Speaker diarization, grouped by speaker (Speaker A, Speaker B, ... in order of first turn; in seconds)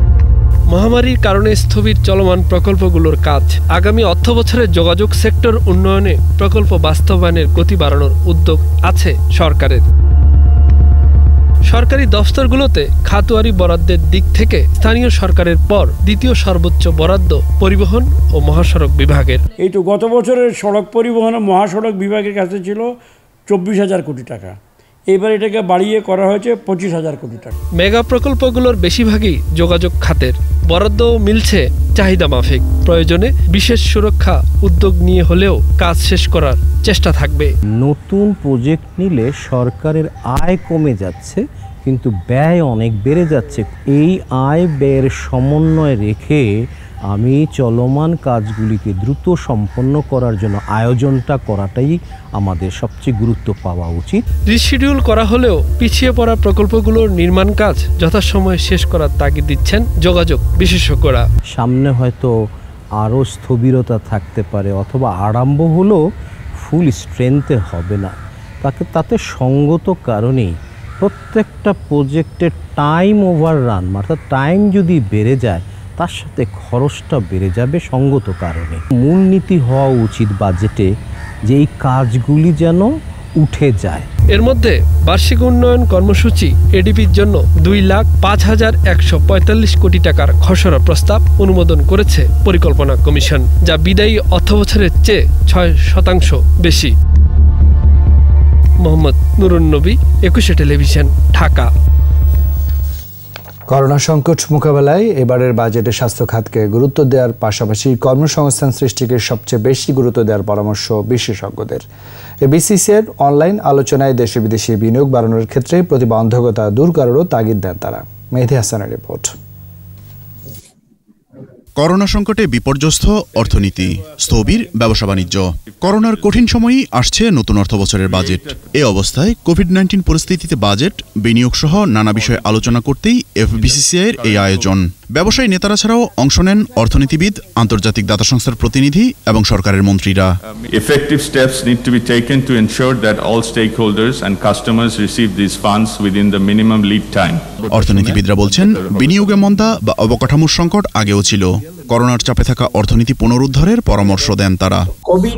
Speaker A: 0.7-9.8, 11.7-19.4, 27.8-37.5, 54.5-61.2, 84.3-96.9, 98.8-101.7
Speaker B: 19.6-22.9, 23.5-24.6, 25.1-27.5
Speaker C: 37.8-46.5, 47.1-54.2, 61.5-62.3, 63.0-66.0, 66.6-80.9, 81.5-84.0
Speaker D: 103.7-111.8, 112.4-119.3
Speaker E: 121.8-140.4, 147.7-154.9
Speaker F: 128.1-128.6, 132.2-132.5, 133.6-134.7, 140.6-149.5